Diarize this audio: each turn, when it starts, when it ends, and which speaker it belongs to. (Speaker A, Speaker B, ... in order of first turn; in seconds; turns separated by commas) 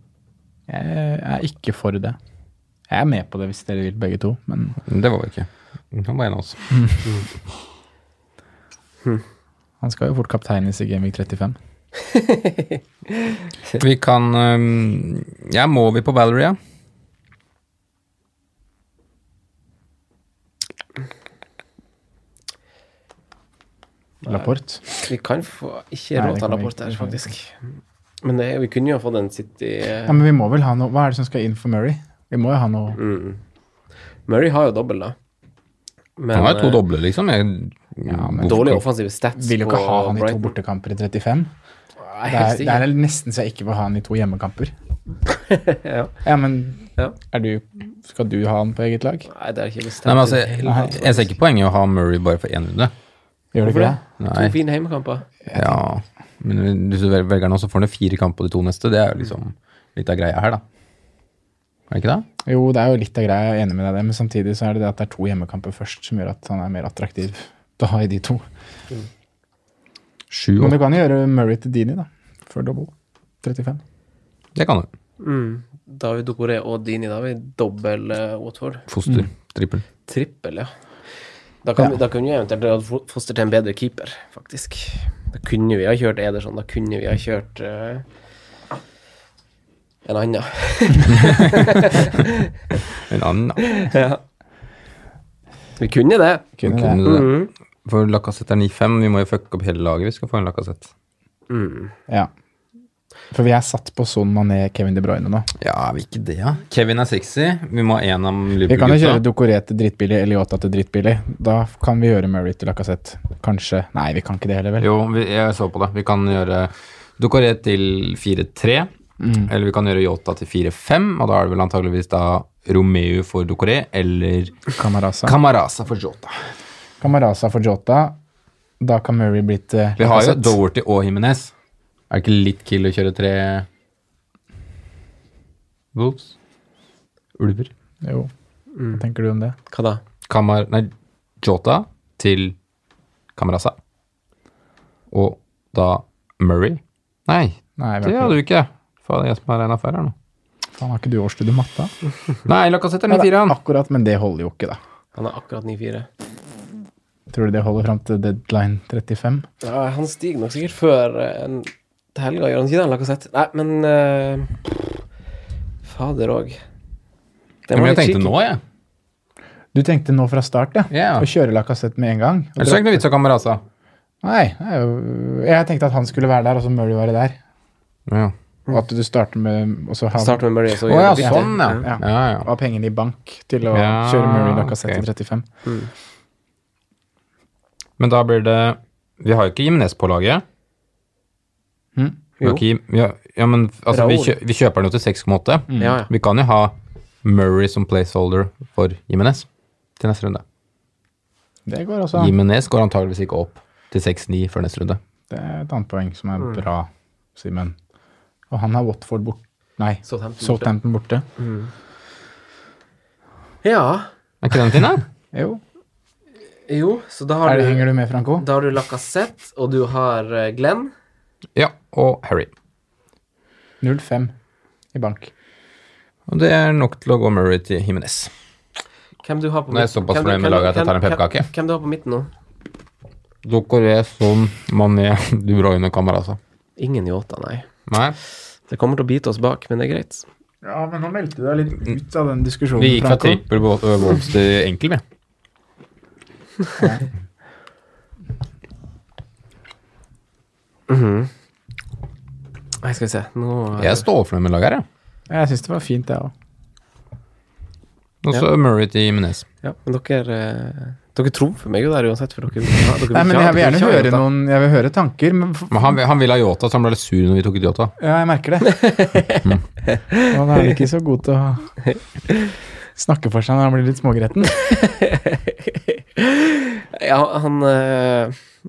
Speaker A: 0.7-2.2, Speaker A: 2.9-4.8, Speaker B: 4.9-6.6, Speaker A: 9.8-11.6, Speaker C: 12.0-13.4, Speaker B: 13.8-16.6, Speaker A: 24.2-24.8, Speaker C: 25.0-27.6, Speaker A: 26.1-27.2, Speaker C: 28.2-30.2, Speaker A: 30.1-33.0, Speaker C: 32.9-33.4, Speaker C: 34.3-35.1, Speaker C: 36.2-36.8, Speaker B: 36.3-38.8, Speaker A: 38.1-38.8, Speaker C: 38.4-40.5, Speaker A: 39.4-41.5, Speaker C: 42.0-42.8, Speaker A: 42.3-44.7, Speaker C: 45.5-46.1, Speaker A: 46.2-49.3, Speaker C: 49.3-51.3, Speaker B: 50.0-52.9, Speaker A: 50.6-51.0, Speaker A: 53.5-54.0, Speaker C: 53.6-55.3, Speaker B: 54.2-54.5, Speaker A: 55.5-55.7, Speaker B: 55.5-60.6, Speaker B: 61.9-62.2, Speaker A: 62.5-68.4, Speaker B: 70.3-70.8, Speaker A: 70.6-72.9, Speaker A: 73.4-73.8, Speaker B: 74.5-74.9, Speaker C: 75.2-78.8, Speaker B: 78.9-79.8, Speaker C: 80.1-80.7, Speaker C: 81.6-88.0, Speaker C: 90.0-92.5, Speaker B: 91.3-91.5, Speaker B: 93.1-93.7, Speaker C: 93.6-94.2, Speaker C: 95.8-96.5, Speaker A: 96.6-97.0, Speaker B: 96.6-100.9, Speaker C: 97.0-97.5, Speaker C: 101.5-101.9, Speaker A: 103.3-105.5, Speaker B: 105.6-109.2, Speaker A: 108.7-114.8, Speaker B: 114.8-118.9, Speaker A: 119.2-119.5, Speaker B: 119.5-124.6, Speaker A: 124.8-125.3, Speaker B: 125.2-126.3, Speaker A: 127.0-128.2, Speaker A: 128.8-130.6, Speaker B: 130.0-131.5, Speaker B: 132.1-133.7, Speaker B: 135.9-136.3, Speaker B: 137.4-137.7, Speaker A: 138.0-138.3, Speaker A: 138.9-139.6, Speaker C: 139.7-140.0, Speaker B: 140.3-142.5, Speaker B: 143.3-143.8, Speaker B: 145.1-150.1, Speaker A: 147.8-148.4, Speaker A: 150.7-151.9, Speaker B: 152.4-153.6, Speaker A: 153.1-154.8, Speaker C: 155.1-156.1, Speaker A: 157.3-159.4, Speaker C: 159.6-165.0, Speaker C: 165.8-166.6, Speaker C: 167.7-168.3, Speaker B: 167.7-168.6, Speaker A: 169.7-173.0, Speaker B: 170.9-171.3, Speaker B: 172.6-173.6, Speaker A: 174.2-177.4, Speaker B: 178.1-178.3, Speaker A: 178.7-180.4, Speaker C: 180.1-181.9, Speaker B: 180.9-182.5, Speaker A: 181.2-185.4, Speaker B: 183.7-185.0, Speaker C: 185.6-185.9, Speaker B: 188.0-190.4, Speaker B: 192.4-199.4, Speaker C: 193.9-194.3, Speaker C: 195.8-196.1, Speaker B: 200.0-200.4, Speaker A: 201.7-202.3, Speaker B: 202.1-205.0, Speaker A: 205.3-207.7, Speaker A: 208.5-211.2, Speaker C: 210.1-210.7, Speaker C: 211.4-211.7, Speaker C: 213.6-214.1, Speaker B: 214.4-215.0, Speaker A: 215.3-215.6, Speaker C: 216.7-220.9, Speaker A: 217.4-218.4, Speaker B: 221.6-222.5, Speaker A: 223.8-224.3, Speaker A: 224.9-225.3, Speaker B: 226.3-228.3, Speaker C: 229.2-232.3, Speaker B: 229.7-231.4, Speaker B: 233.4-236.4, Speaker C: 236.8-237.7, Speaker B: 237.9-238.2, Speaker C: 238.7-240.2, Speaker A: 240.6-243.4, Speaker B: 242.8-245.0, Speaker A: 246.8-247.0, Speaker C: 250.9-251.3, Speaker C: 252.8-254.1, Speaker B: 253.8-254.8, Speaker A: 255.3-256.3, Speaker B: 258.2-259.4, Speaker C: 259.6-264.2, Speaker A: 263.1-265.7, Speaker B: 265.7-267.9, Speaker A: 268.0-268.9, Speaker C: 268.6-270.8, Speaker A: 270.3-271.7, Speaker C: 271.8-272.5, Speaker A: 272.9-274.7, Speaker C: 274.7-278.4